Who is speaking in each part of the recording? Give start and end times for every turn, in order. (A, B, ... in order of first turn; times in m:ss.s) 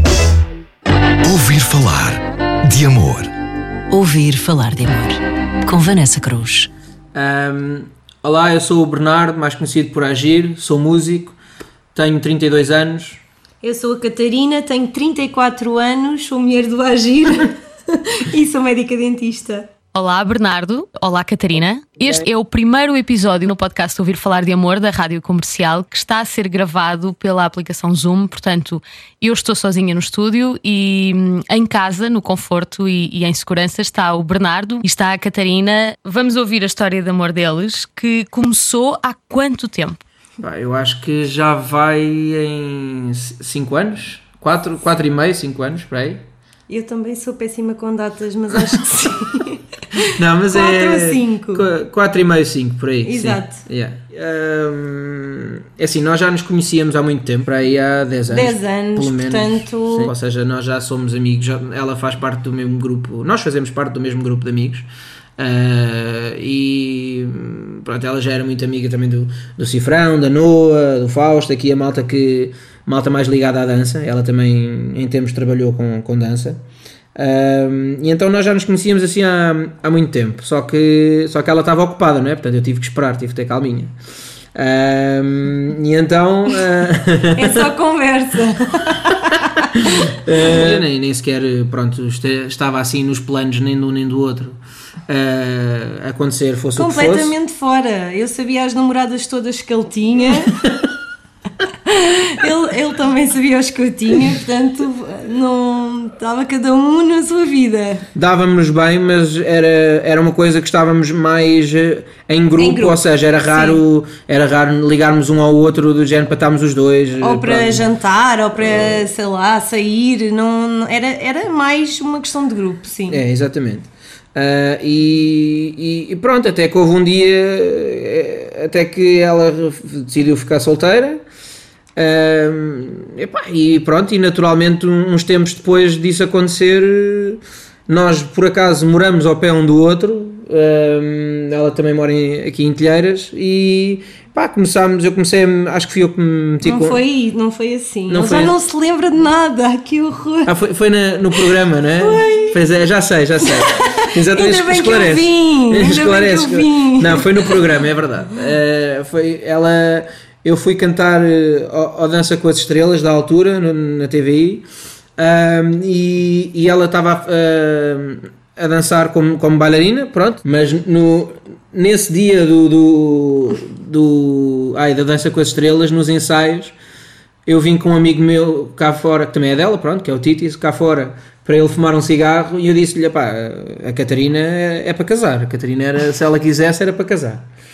0:01.2-0:03.3 A
0:03.9-0:06.7 B
0:07.1-0:11.4 C
0:11.9-0:13.2 C
0:13.6-0:19.7 D
0:19.9-0:40.0 E
0:22.0-0:22.3 C
0:40.4-0:46.2 C
0:46.7-0:51.7 D
0:50.2-1:04.9 C
0:53.0-0:53.6 D
0:58.3-1:00.1 D
1:05.4-1:16.6 C
1:17.2-1:23.9 C
1:24.5-1:27.7 C
1:27.4-1:30.7 D
1:29.8-1:37.3 C
1:36.8-1:40.6 D
1:41.8-1:48.0 D
1:48.1-1:57.9 C
1:52.6-1:53.8 D
1:57.2-2:03.2 D
1:58.5-1:59.1 C
2:03.1-2:11.2 C
2:12.0-2:27.0 C
2:26.6-2:30.5 D
2:28.1-2:28.6 C
2:30.4-2:44.6 C
2:32.0-2:32.6 D
2:33.4-2:37.6 D
2:45.2-2:56.8 C
2:57.4-3:07.4 C